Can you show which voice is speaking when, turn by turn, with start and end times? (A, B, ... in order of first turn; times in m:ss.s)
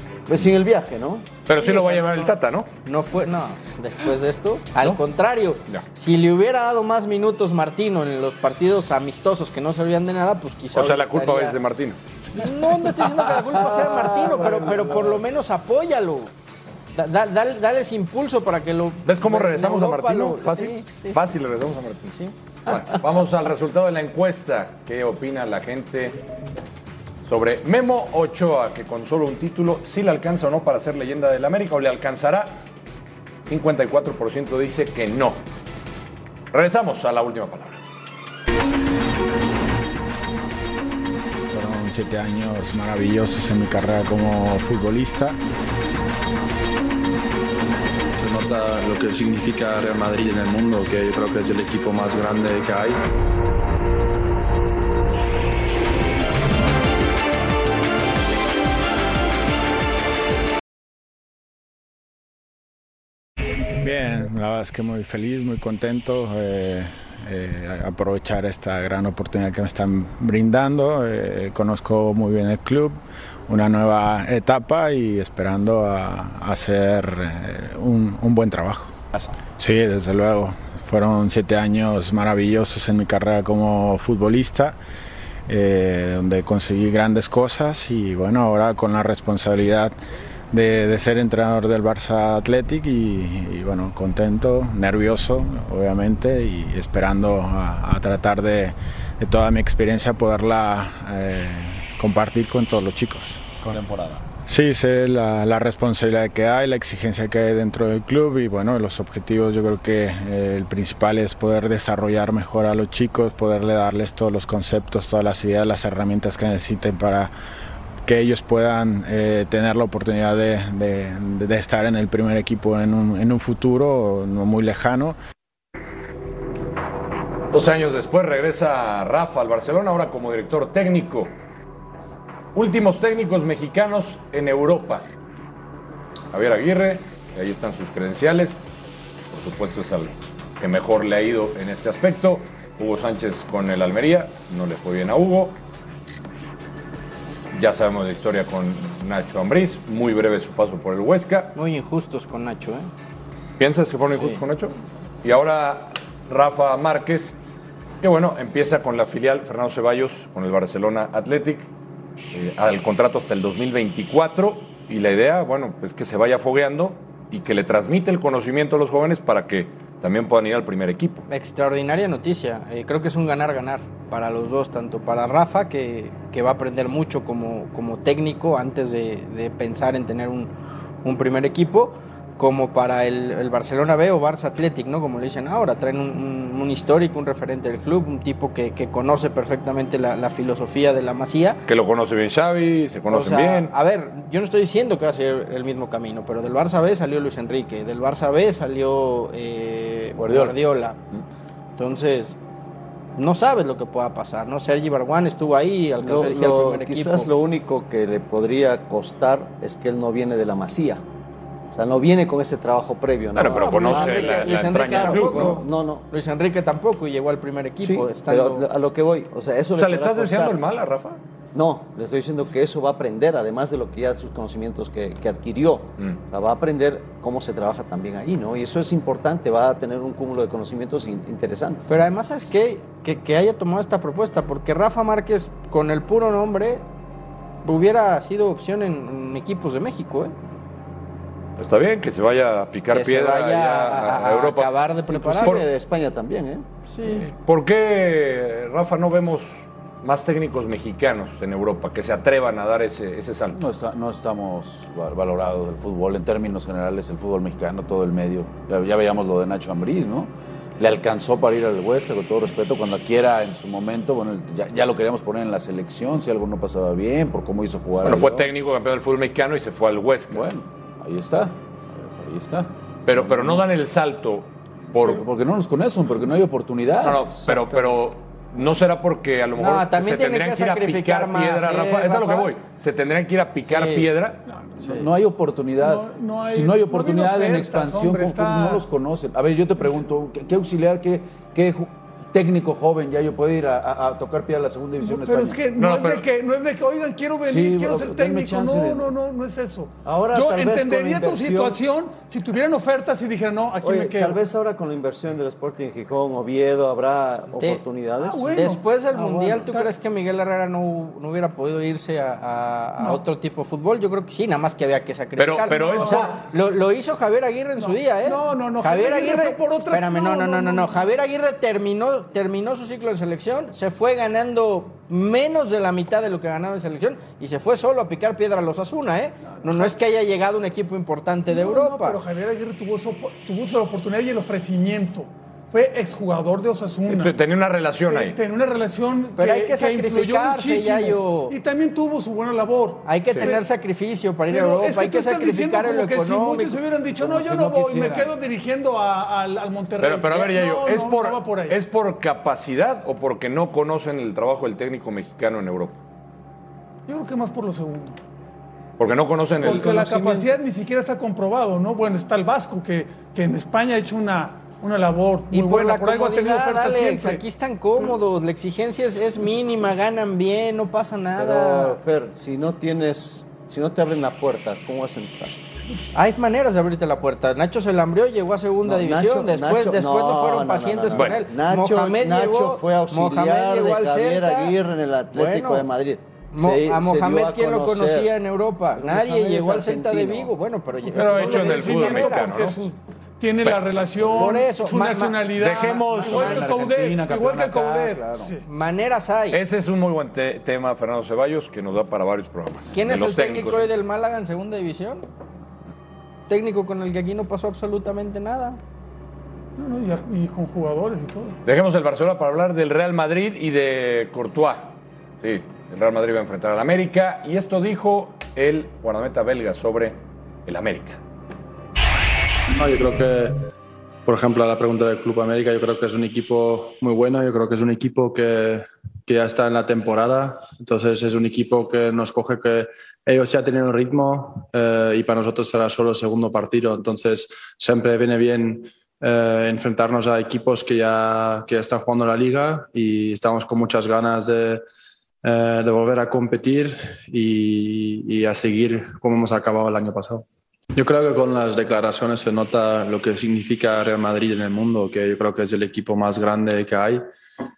0:00.3-0:01.3 A
0:01.5-0:02.7 B
0:01.6-0:02.4 C
0:02.9-0:11.6 C
0:10.8-0:12.0 B
0:12.4-0:16.3 C
0:17.0-0:21.2 C
0:19.1-0:22.2 B
0:22.7-0:26.2 B
0:27.3-0:32.7 B
0:33.5-0:35.4 B
0:36.5-0:37.8 B
0:41.5-0:45.4 D
0:48.2-0:53.0 E
1:03.8-1:18.9 D
1:19.6-1:24.8 D
1:25.5-1:29.9 D
1:30.5-1:43.8 D
1:43.7-1:44.2 B
1:44.5-1:57.3 D
1:58.0-2:05.2 D
2:07.5-2:11.3 B
2:12.6-2:15.1 B
2:16.3-2:18.6 B
2:19.3-2:25.6 B
2:27.5-2:31.6 B
2:31.6-2:32.9 C
2:33.6-2:37.4 B
2:38.0-2:41.7 B
2:42.3-2:51.3 B
2:51.3-3:00.5 C
3:01.0-3:11.6 C
3:11.7-3:13.7 B
3:13.1-3:21.0 C
3:20.2-3:20.6 F
3:21.8-3:22.4 C
3:23.2-3:27.3 C
3:26.0-3:31.0 A
3:31.7-3:36.1 A
3:33.4-3:35.6 B
3:33.5-3:38.7 C
3:37.8-3:40.6 A
3:39.8-3:41.2 B
3:41.5-3:51.9 A
3:51.9-3:56.8 C
3:57.6-4:00.3 C
4:01.6-4:04.7 B
4:02.9-4:05.6 C
4:05.1-4:06.6 A
4:05.4-4:05.7 B
4:06.9-4:07.3 C
4:07.1-4:13.6 B
4:13.5-4:28.5 F
4:28.0-4:30.5 B
4:30.3-4:33.7 F
4:33.1-4:35.2 B
4:35.0-4:37.7 F
4:37.0-4:44.4 B
4:39.6-4:42.5 C
4:43.6-4:44.1 C
4:44.5-4:45.0 G
4:44.8-4:55.6 F
4:45.8-4:48.9 G
4:55.0-5:04.4 G
4:55.8-4:56.2 B
4:57.4-4:58.7 F
5:00.0-5:01.8 A
5:03.8-5:08.5 A
5:08.2-5:09.9 G
5:08.5-5:32.2 C
5:15.4-5:16.4 B
5:15.7-5:16.4 G
5:17.8-5:21.1 G
5:29.5-5:29.9 G
5:31.5-5:37.4 G
5:37.1-5:38.4 B
5:38.0-5:43.7 G
5:39.4-5:41.6 C
5:43.1-5:46.8 C
5:44.5-5:51.8 G
5:47.2-5:48.3 F
5:50.0-5:56.0 B
5:57.1-5:58.2 G
5:59.0-6:00.6 B
5:59.6-6:07.4 G
6:05.5-6:12.0 C
6:11.4-6:15.7 A
6:16.1-6:24.8 C
6:18.8-6:28.3 A
6:21.1-6:21.4 B
6:25.3-6:25.9 C
6:26.5-6:32.5 C
6:28.9-6:30.5 A
6:31.0-6:38.6 G
6:31.1-6:32.8 B
6:34.3-6:35.4 C
6:35.6-6:36.7 B
6:36.2-6:38.5 F
6:36.2-6:36.6 C
6:38.6-6:39.6 C
6:39.5-6:43.9 B
6:42.9-6:45.2 C
6:46.5-6:48.8 C
6:49.8-6:51.6 G
6:51.6-7:01.2 B
7:02.7-7:03.6 E
7:04.2-7:24.8 E
7:25.4-7:37.2 E